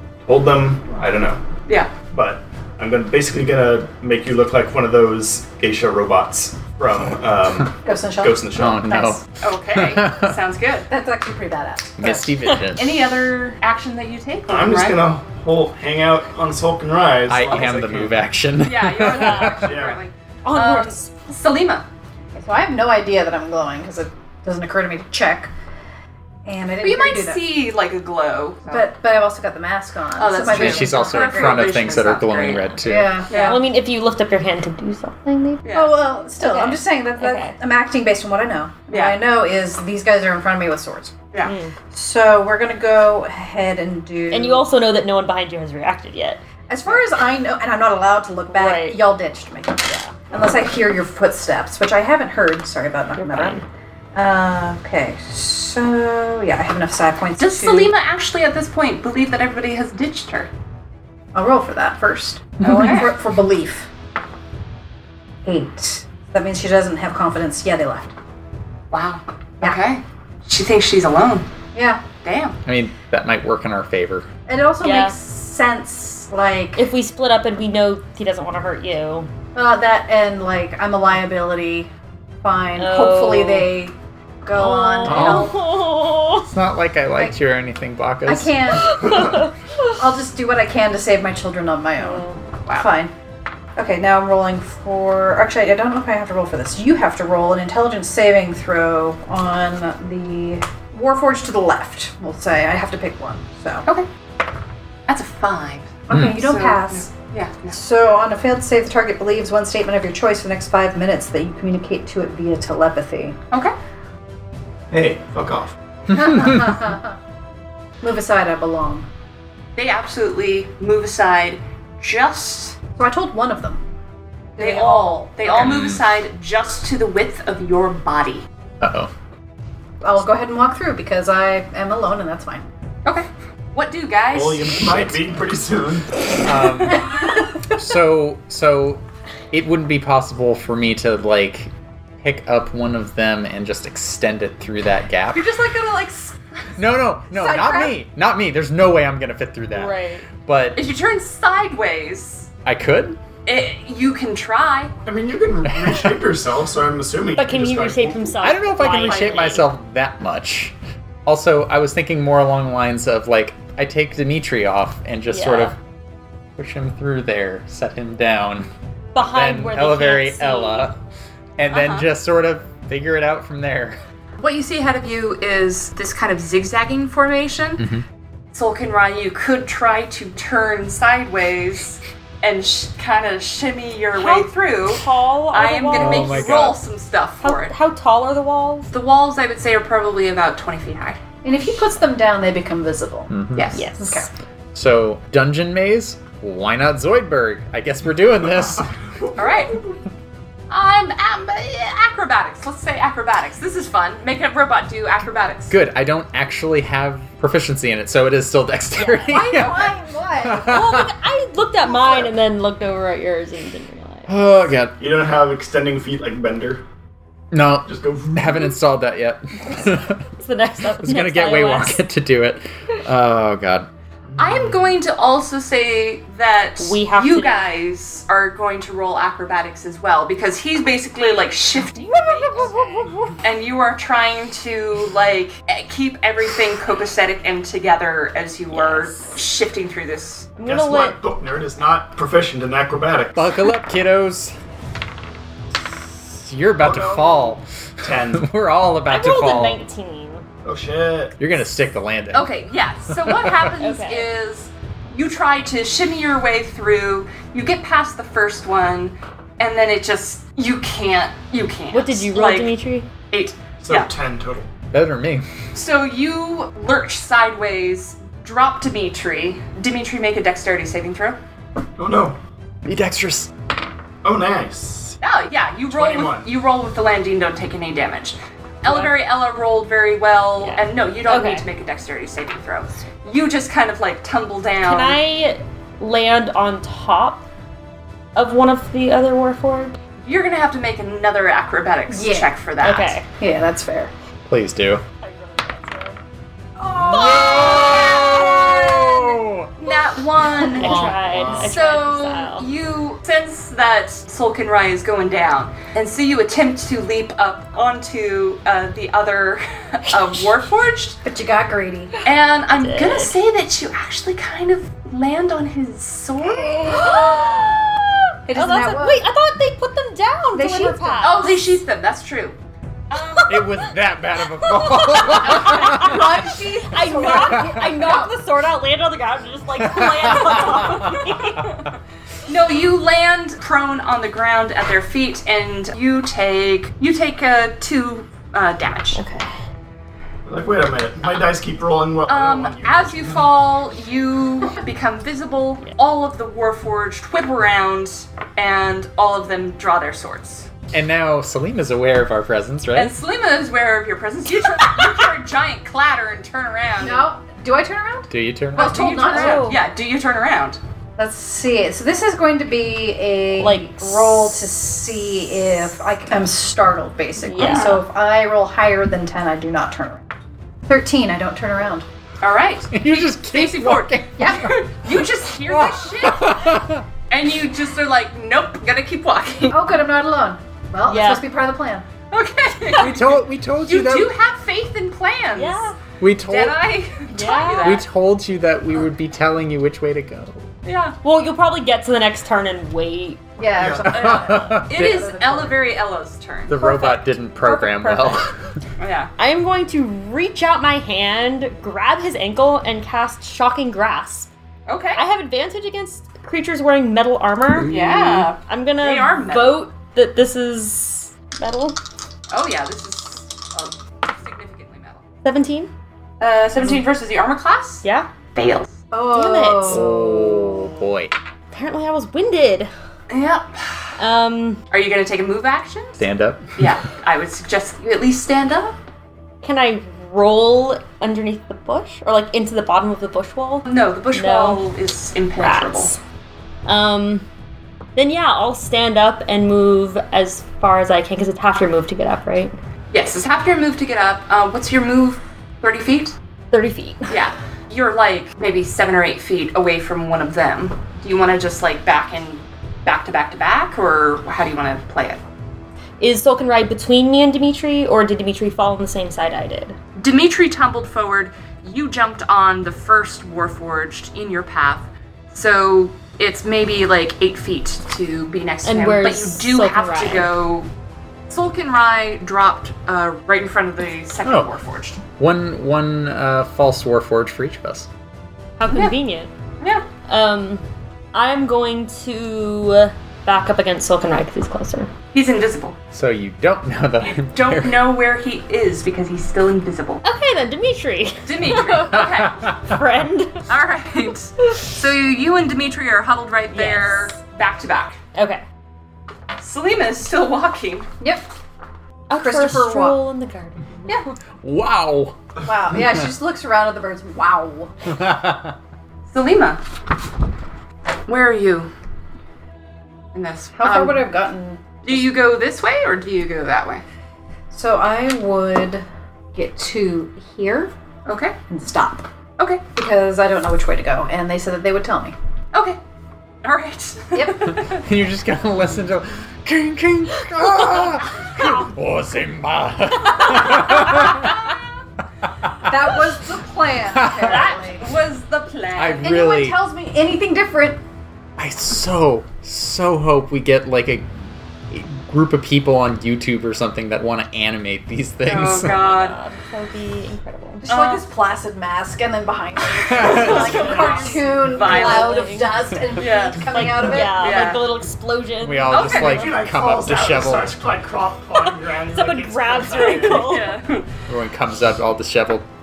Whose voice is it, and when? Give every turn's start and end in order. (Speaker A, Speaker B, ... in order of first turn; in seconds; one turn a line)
Speaker A: 0.2-1.4
Speaker B: 1.7-1.9
Speaker A: 2.0-8.8
Speaker C: 7.8-9.2
Speaker D: 8.5-10.4
Speaker B: 9.4-10.9
Speaker C: 10.9-12.3
Speaker D: 12.0-13.1
Speaker B: 12.7-15.1
Speaker A: 14.5-18.2
Speaker D: 17.3-19.6
Speaker B: 18.6-21.8
Speaker E: 19.0-19.7
Speaker A: 19.6-20.0
Speaker E: 20.4-21.1
Speaker C: 22.3-25.5
Speaker C: 26.4-27.4
Speaker B: 26.8-28.9
Speaker C: 28.7-31.9
Speaker B: 30.2-32.8
Speaker D: 30.5-33.2
Speaker C: 32.8-33.6
Speaker B: 33.3-33.6
Speaker E: 33.4-35.7
Speaker B: 35.6-36.0
Speaker C: 35.7-41.1
Speaker E: 36.4-37.6
Speaker B: 38.9-39.2
Speaker E: 41.4-41.7
Speaker C: 41.9-44.7
Speaker E: 44.3-46.9
Speaker C: 46.7-53.6
Speaker E: 48.5-49.1
Speaker E: 49.8-50.1
Speaker E: 53.2-53.6
Speaker C: 54.1-57.9
Speaker B: 57.4-60.5
Speaker C: 61.3-63.9
Speaker B: 62.6-63.2
Speaker C: 65.4-68.1
Speaker B: 68.9-71.5
Speaker C: 71.7-72.0
Speaker B: 72.2-72.6
Speaker D: 72.7-74.3
Speaker C: 74.5-76.8
Speaker E: 74.8-75.2
Speaker E: 76.8-79.3
Speaker C: 79.5-81.9
Speaker C: 82.4-85.6
Speaker E: 82.8-83.7
Speaker E: 84.5-86.5
Speaker D: 85.0-85.6
Speaker D: 86.4-88.8
Speaker C: 88.2-89.4
Speaker E: 88.8-90.0
Speaker C: 89.9-93.1
Speaker E: 92.0-92.4
Speaker B: 92.7-92.9
Speaker C: 93.8-103.8
Speaker B: 105.1-107.8
Speaker C: 106.1-107.1
Speaker D: 106.1-106.4
Speaker C: 107.7-113.4
Speaker A: 114.9-115.7
Speaker C: 116.1-117.2
Speaker D: 116.1-116.8
Speaker C: 118.0-119.1
Speaker B: 119.8-122.8
Speaker C: 123.0-123.8
Speaker C: 124.5-125.3
Speaker B: 124.6-128.4
Speaker D: 125.5-126.0
Speaker D: 128.8-129.1
Speaker C: 130.0-132.7
Speaker B: 133.0-134.8
Speaker A: 134.3-136.3
Speaker D: 134.8-135.3
Speaker D: 136.4-145.5
Speaker B: 145.3-146.3
Speaker D: 146.8-150.8
Speaker C: 147.3-148.0
Speaker E: 149.7-150.3
Speaker B: 150.7-152.5
Speaker D: 152.6-153.2
Speaker B: 153.4-154.9
Speaker A: 155.0-158.4
Speaker E: 157.3-159.6
Speaker D: 158.4-160.7
Speaker B: 158.9-159.6
Speaker D: 161.2-165.8
Speaker E: 165.3-165.8
Speaker D: 166.6-170.9
Speaker E: 169.1-170.9
Speaker D: 171.6-174.0
Speaker B: 171.7-172.1
Speaker B: 174.4-177.8
Speaker D: 177.8-178.0
Speaker B: 178.5-187.7
Speaker E: 184.1-186.6
Speaker D: 185.9-186.8
Speaker E: 187.4-188.9
Speaker B: 188.9-191.2
Speaker C: 191.4-193.3
Speaker D: 193.3-193.7
Speaker B: 193.5-193.9
Speaker E: 193.7-194.3
Speaker C: 194.0-194.3
Speaker D: 194.7-198.9
Speaker A: 198.9-200.0
Speaker B: 199.3-199.8
Speaker B: 200.7-205.8
Speaker D: 205.7-211.1
Speaker E: 209.0-209.4
Speaker C: 209.3-210.8
Speaker E: 210.6-214.5
Speaker D: 214.3-215.0
Speaker A: 215.0-216.8
Speaker D: 217.5-220.2
Speaker A: 217.8-218.7
Speaker E: 220.4-222.0
Speaker D: 221.0-223.9
Speaker A: 224.3-224.7
Speaker B: 224.4-232.7
Speaker E: 226.8-227.7
Speaker E: 232.5-233.0
Speaker D: 232.5-233.2
Speaker B: 233.4-240.5
Speaker E: 238.7-239.2
Speaker E: 240.6-241.2
Speaker A: 240.6-243.5
Speaker D: 243.3-244.5
Speaker D: 246.3-249.8
Speaker A: 246.8-248.5
Speaker E: 249.1-250.4
Speaker A: 250.6-251.4
Speaker D: 251.4-252.5
Speaker B: 252.3-262.7
Speaker D: 253.1-253.7
Speaker E: 253.8-254.3
Speaker E: 261.9-263.1
Speaker B: 263.3-264.1
Speaker A: 263.8-264.7
Speaker D: 264.9-265.4
Speaker B: 265.7-271.4
Speaker A: 272.0-272.4
Speaker D: 272.8-273.5
Speaker A: 274.2-275.2
Speaker B: 275.2-285.2
Speaker A: 275.9-276.5
Speaker E: 278.9-279.1
Speaker E: 280.6-281.6
Speaker E: 284.8-287.4
Speaker E: 288.3-290.0
Speaker B: 290.2-293.2
Speaker C: 292.1-292.5
Speaker E: 292.8-293.2
Speaker C: 293.4-294.1
Speaker D: 294.4-295.0
Speaker E: 295.2-296.2
Speaker D: 296.9-299.7
Speaker B: 296.9-299.1
Speaker E: 297.1-298.5
Speaker B: 299.8-311.2
Speaker C: 300.6-301.1
Speaker E: 300.7-302.7
Speaker D: 300.8-301.7
Speaker E: 310.1-310.4
Speaker C: 311.2-312.1
Speaker B: 312.2-317.7
Speaker E: 312.7-313.4
Speaker E: 316.8-321.6
Speaker C: 318.5-319.3
Speaker C: 320.5-321.6
Speaker B: 321.2-322.6
Speaker B: 323.1-323.7
Speaker E: 323.1-323.8
Speaker D: 323.5-326.3
Speaker E: 324.6-331.6
Speaker B: 325.4-326.1
Speaker C: 325.6-328.3
Speaker D: 327.3-327.8
Speaker D: 329.8-331.1
Speaker B: 330.6-331.9
Speaker B: 332.4-339.2
Speaker E: 339.1-339.6
Speaker A: 340.4-343.5
Speaker B: 342.3-350.7
Speaker D: 350.9-353.1
Speaker B: 352.9-357.3
Speaker C: 357.0-359.8
Speaker D: 358.3-359.2
Speaker B: 358.8-360.8
Speaker E: 359.1-359.8
Speaker C: 361.2-370.3
Speaker E: 363.6-364.7
Speaker E: 367.4-368.0
Speaker B: 367.6-368.0
Speaker C: 370.9-372.1
Speaker B: 372.4-376.7
Speaker D: 372.9-375.1
Speaker C: 374.4-374.8
Speaker D: 375.7-377.1
Speaker B: 377.3-379.8
Speaker C: 379.7-382.1
Speaker E: 381.1-381.4
Speaker B: 382.3-385.9
Speaker D: 383.0-384.3
Speaker E: 385.5-386.0
Speaker D: 386.2-386.8
Speaker B: 386.5-388.1
Speaker E: 387.3-388.0
Speaker D: 387.8-390.7
Speaker B: 390.8-391.1
Speaker E: 391.2-393.4
Speaker C: 393.6-395.8
Speaker A: 393.8-394.2
Speaker D: 394.1-395.3
Speaker B: 394.1-397.0
Speaker D: 396.7-398.7
Speaker E: 396.8-398.4
Speaker B: 399.0-399.3
Speaker E: 399.4-404.5
Speaker B: 404.9-405.2
Speaker E: 405.1-407.9
Speaker D: 407.7-408.5
Speaker B: 407.9-409.9
Speaker E: 408.6-412.0
Speaker B: 412.5-415.2
Speaker E: 415.4-415.9
Speaker B: 416.4-418.0
Speaker E: 418.0-418.3
Speaker B: 418.5-418.9
Speaker C: 419.1-420.1
Speaker E: 419.3-420.8
Speaker D: 419.9-421.3
Speaker E: 421.7-422.9
Speaker B: 423.3-424.1
Speaker E: 424.2-424.8
Speaker B: 424.9-426.2
Speaker D: 426.2-426.8
Speaker B: 426.8-428.9
Speaker E: 429.6-434.8
Speaker B: 433.9-436.1
Speaker E: 435.6-436.2
Speaker E: 436.9-437.4
Speaker E: 438.1-442.8
Speaker B: 443.1-446.4
Speaker E: 446.7-447.4
Speaker B: 447.3-455.4
Speaker E: 456.2-460.0
Speaker B: 460.2-470.9
Speaker E: 468.8-470.5
Speaker B: 471.5-475.2
Speaker D: 474.4-474.7
Speaker D: 475.4-478.1
Speaker E: 478.8-479.5
Speaker B: 479.8-480.1
Speaker E: 480.3-485.1
Speaker B: 485.3-486.0
Speaker D: 486.1-488.1
Speaker B: 487.3-490.2
Speaker E: 490.2-493.6
Speaker B: 491.4-492.7
Speaker D: 492.1-492.7
Speaker B: 493.7-498.2
Speaker E: 496.7-497.3
Speaker E: 498.3-498.6
Speaker B: 499.6-501.1
Speaker E: 502.3-504.2
Speaker C: 502.4-503.2
Speaker D: 504.6-505.4
Speaker C: 505.6-507.9
Speaker D: 505.9-506.3
Speaker D: 508.1-508.7
Speaker B: 509.3-509.8
Speaker B: 511.3-511.9
Speaker B: 513.3-514.2
Speaker C: 513.8-515.3
Speaker B: 515.0-517.0
Speaker C: 517.7-520.9
Speaker B: 521.2-521.5
Speaker C: 521.7-522.2
Speaker C: 522.9-525.3
Speaker B: 525.7-526.0
Speaker B: 526.6-528.0
Speaker C: 527.3-527.7
Speaker D: 527.8-534.6
Speaker B: 533.4-534.9
Speaker D: 535.6-536.1
Speaker C: 535.8-538.0
Speaker D: 537.1-537.7
Speaker B: 537.2-539.3
Speaker D: 538.9-539.8
Speaker C: 539.2-541.0
Speaker D: 541.6-544.3
Speaker D: 544.9-549.0
Speaker B: 548.4-549.4
Speaker E: 548.8-550.9
Speaker C: 550.8-557.7
Speaker B: 550.9-551.2
Speaker D: 553.1-553.8
Speaker B: 553.1-557.9
Speaker E: 553.4-559.3
Speaker A: 553.6-554.2
Speaker D: 558.6-560.8
Speaker B: 558.9-559.5
Speaker A: 559.0-563.6
Speaker E: 562.0-563.8
Speaker B: 563.0-564.1
Speaker D: 564.3-565.6